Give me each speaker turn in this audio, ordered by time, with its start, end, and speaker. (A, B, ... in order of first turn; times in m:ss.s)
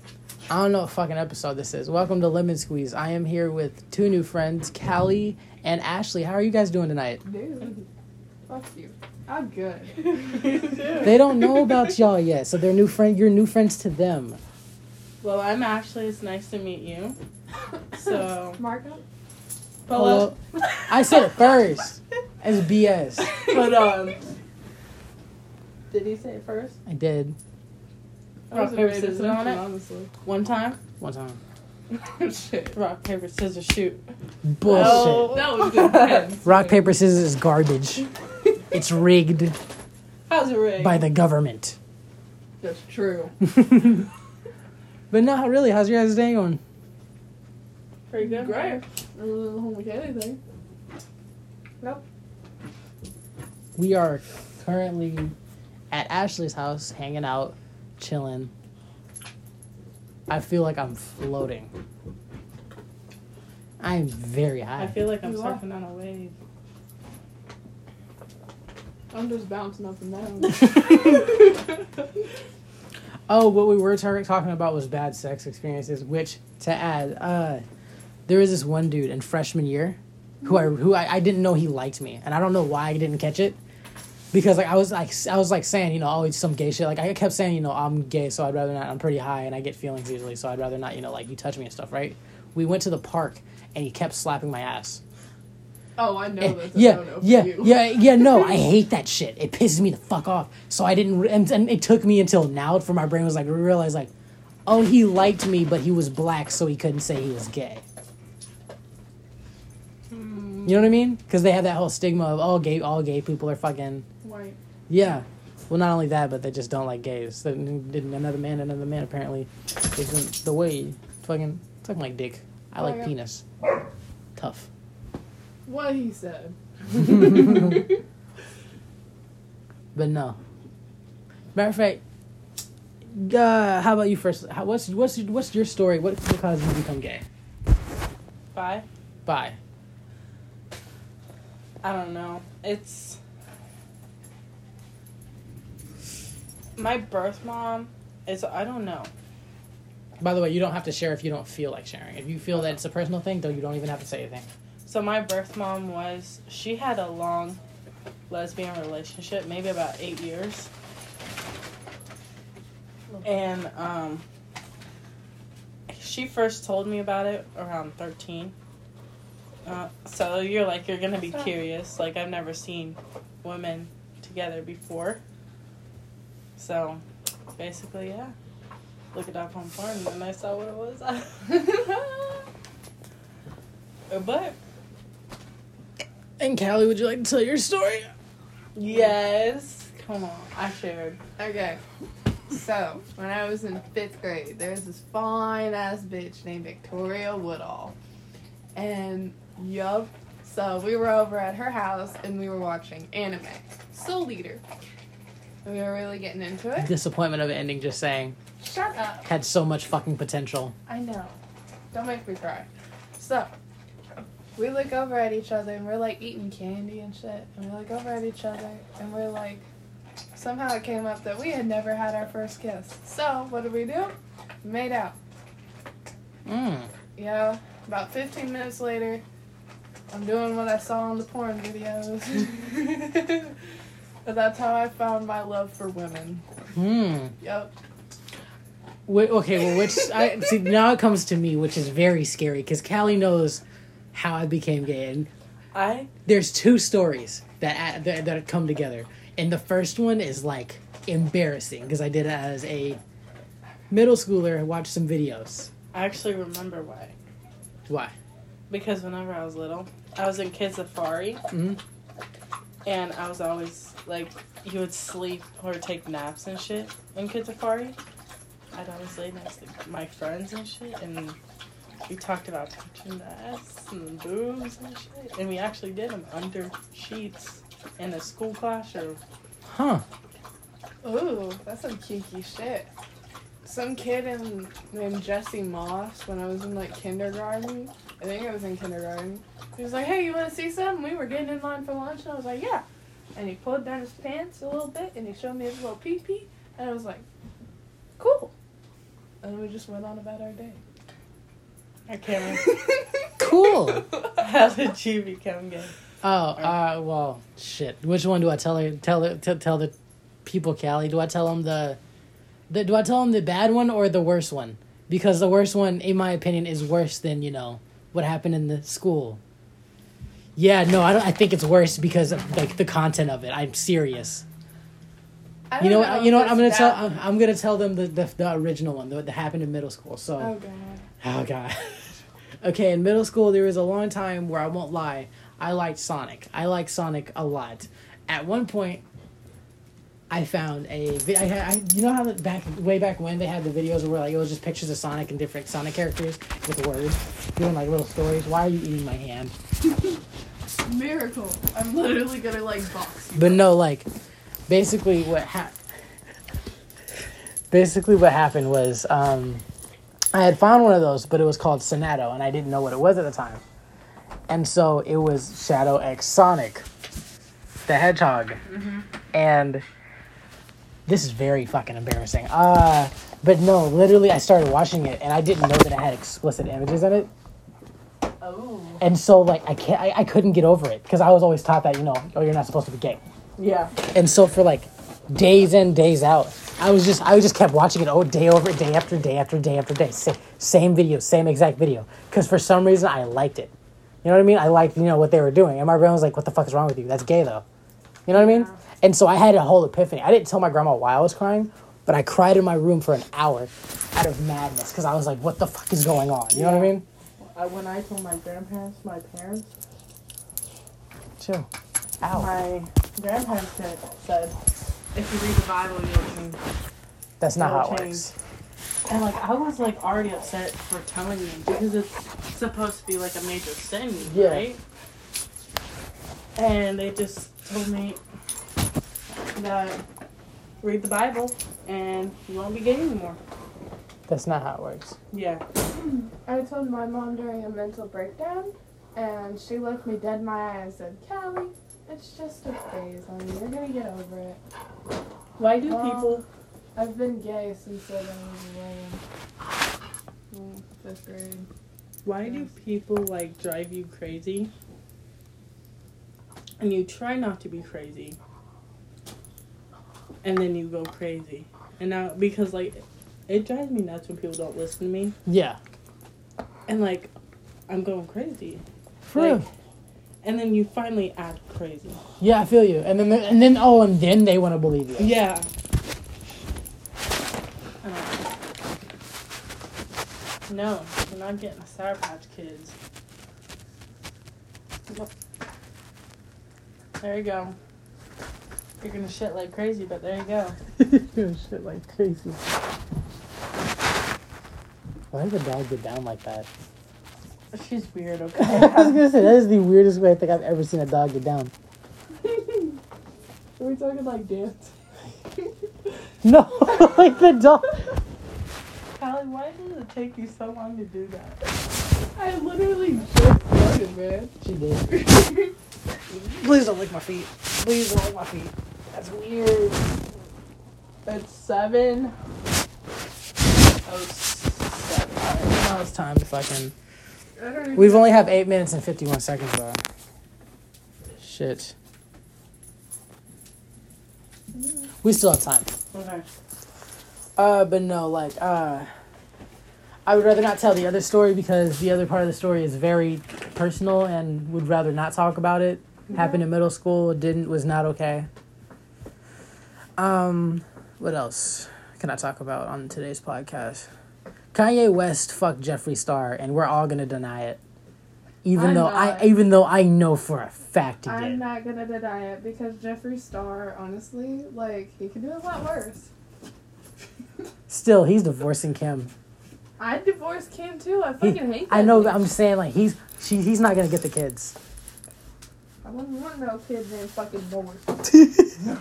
0:00.5-0:07.2 A
0:07.2-0:07.8 B
0:08.5-0:11.7 B
0:10.1-0:11.1 C
0:11.0-0:14.4 A
0:15.2-0:17.2 C
0:17.9-0:18.6 C
0:18.0-0:19.0 B
0:19.9-0:20.4 C
0:19.9-0:23.4 A
0:23.3-0:24.2 C
0:23.4-0:23.6 B
0:25.9-0:26.8 C
0:26.9-0:27.4 A
0:28.5-0:29.7 C
0:28.5-0:30.1 B
0:30.2-0:30.8 C
0:31.0-0:31.4 A
0:31.9-0:32.8 B
0:32.7-0:34.1 C
0:34.4-0:35.4 A
0:34.6-0:36.4 C
0:34.7-0:36.9 B
0:36.4-0:38.1 A
0:38.7-0:39.6 A
0:40.3-0:41.0 C
0:40.8-0:41.8 A
0:42.6-0:43.3 B
0:43.5-0:44.0 A
0:45.1-0:46.6 A
0:48.1-0:48.8 C
0:48.2-0:50.4 B
0:53.8-0:55.4 A
0:55.9-0:58.5 A
1:00.3-1:01.7 A
1:03.8-1:05.1 A
1:04.8-1:06.4 C
1:05.2-1:05.6 B
1:09.1-1:11.9 B
1:13.3-1:17.6 A
1:18.3-1:23.6 A
1:24.3-1:35.0 A
1:36.0-1:38.6 B
1:36.4-1:44.1 A
1:44.7-1:47.8 A
1:50.1-1:50.9 C
1:50.6-1:54.0 A
1:54.2-1:54.6 B
1:54.9-2:03.4 A
2:02.8-2:03.1 B
2:04.4-2:04.7 A
2:05.6-2:08.0 B
2:10.0-2:10.4 A
2:11.6-2:12.0 A
2:13.1-2:17.2 A
2:18.5-2:18.8 C
2:19.3-2:19.6 A
2:21.8-2:23.2 C
2:26.8-2:29.1 C
2:30.2-2:34.5 A
2:34.8-2:37.6 C
2:38.3-2:40.7 C
2:43.2-2:44.2 C
2:45.9-2:48.5 C
2:49.6-2:55.2 C
2:51.2-2:51.5 B
2:56.6-2:58.3 C
2:59.1-3:01.7 C
3:01.5-3:02.3 B
3:04.1-3:04.6 C
3:06.4-3:08.1 A
3:08.8-3:11.2 C
3:11.4-3:11.8 B
3:12.5-3:18.0 B
3:18.7-3:24.6 B
3:25.6-3:26.9 B
3:26.8-3:28.4 A
3:28.6-3:29.3 B
3:29.2-3:30.8 A
3:30.9-3:31.4 B
3:31.9-3:33.5 B
3:34.6-3:39.6 B
3:40.3-3:45.2 B
3:46.5-3:46.9 A
3:47.2-3:49.2 B
3:50.1-3:53.5 B
3:54.2-3:56.4 B
3:56.8-3:57.4 A
3:57.4-3:57.7 B
3:59.1-4:05.3 A
4:05.7-4:06.1 C
4:06.2-4:13.0 A
4:13.9-4:15.7 A
4:15.9-4:17.2 C
4:17.9-4:18.1 A
4:18.7-4:21.4 C
4:21.5-4:21.8 A
4:22.8-4:28.0 C
4:28.7-4:31.4 C
4:32.1-4:39.2 C
4:39.7-4:40.0 A
4:41.0-4:42.9 B
4:43.6-4:57.2 B
4:58.2-4:58.5 B
4:59.4-5:00.8 B
5:02.1-5:02.8 C
5:02.5-5:04.4 B
5:03.4-5:04.1 A
5:04.4-5:05.9 C
5:06.2-5:09.9 A
5:10.4-5:12.0 A
5:12.7-5:19.4 A
5:20.6-5:24.4 A
5:25.7-5:27.1 B
5:25.8-5:30.5 A
5:30.4-5:31.1 B
5:31.2-5:32.1 A
5:32.6-5:39.0 A
5:40.3-5:49.5 A
5:50.8-5:53.7 B
5:53.4-5:54.1 A
5:54.7-5:55.7 A
5:57.7-5:59.6 A
6:00.3-6:03.6 A
6:04.5-6:06.8 A
6:07.9-6:08.6 A
6:08.7-6:09.1 C
6:09.3-6:09.8 A
6:11.1-6:17.3 A
6:18.4-6:19.0 C
6:19.0-6:23.2 A
6:23.6-6:24.0 C
6:24.1-6:33.7 A
6:34.2-6:37.6 A
6:38.3-6:47.0 A
6:38.3-6:38.8 C
6:46.5-6:49.7 C
6:51.4-6:51.7 A
6:52.2-6:52.5 A
6:52.3-6:54.5 C
6:55.1-6:56.6 C
6:57.4-6:58.3 A
6:57.6-6:58.3 C
6:59.1-7:04.8 C
7:04.2-7:04.7 A
7:06.6-7:08.2 C
7:09.6-7:10.0 C
7:10.8-7:13.4 C
7:14.3-7:15.2 A
7:15.3-7:15.6 C
7:16.0-7:24.6 B
7:25.6-7:26.4 C
7:25.8-7:26.4 B
7:27.0-7:29.2 B
7:30.5-7:31.7 B
7:32.2-7:34.7 C
7:32.4-7:32.7 B
7:36.8-7:38.4 C
7:40.4-7:45.4 C
7:45.5-7:45.8 A
7:46.9-7:47.3 C
7:47.9-7:49.6 C
7:49.3-7:49.7 A
7:50.4-7:52.2 C
7:52.4-7:55.4 A
7:55.2-7:55.7 C
7:58.0-7:58.5 C
8:00.7-8:03.0 C
8:07.2-8:07.8 C
8:09.0-8:10.8 C
8:11.0-8:12.7 A
8:15.3-8:16.7 A
8:17.7-8:19.3 C
8:18.6-8:21.7 A
8:22.4-8:23.0 B
8:23.8-8:24.9 B
8:26.4-8:28.0 A
8:26.8-8:27.3 B
8:29.2-8:31.6 C
8:32.4-8:34.5 B
8:34.6-8:35.2 A
8:35.1-8:35.7 B
8:36.3-8:40.1 A
8:41.3-8:42.3 C
8:44.0-8:45.8 C
8:45.7-8:46.9 A
8:47.6-8:48.6 B
8:48.0-8:50.0 A
8:51.4-8:51.9 A
8:55.2-8:55.9 A
8:56.1-8:56.4 C
8:57.6-8:59.1 A
9:00.3-9:08.5 A
9:10.2-9:14.1 A
9:14.7-9:17.8 A
9:18.6-9:21.6 A
9:18.7-9:19.5 B
9:21.2-9:26.3 B
9:27.9-9:29.3 A
9:30.0-9:32.4 B
9:31.4-9:34.8 A
9:36.0-9:38.2 B
9:38.3-9:38.8 A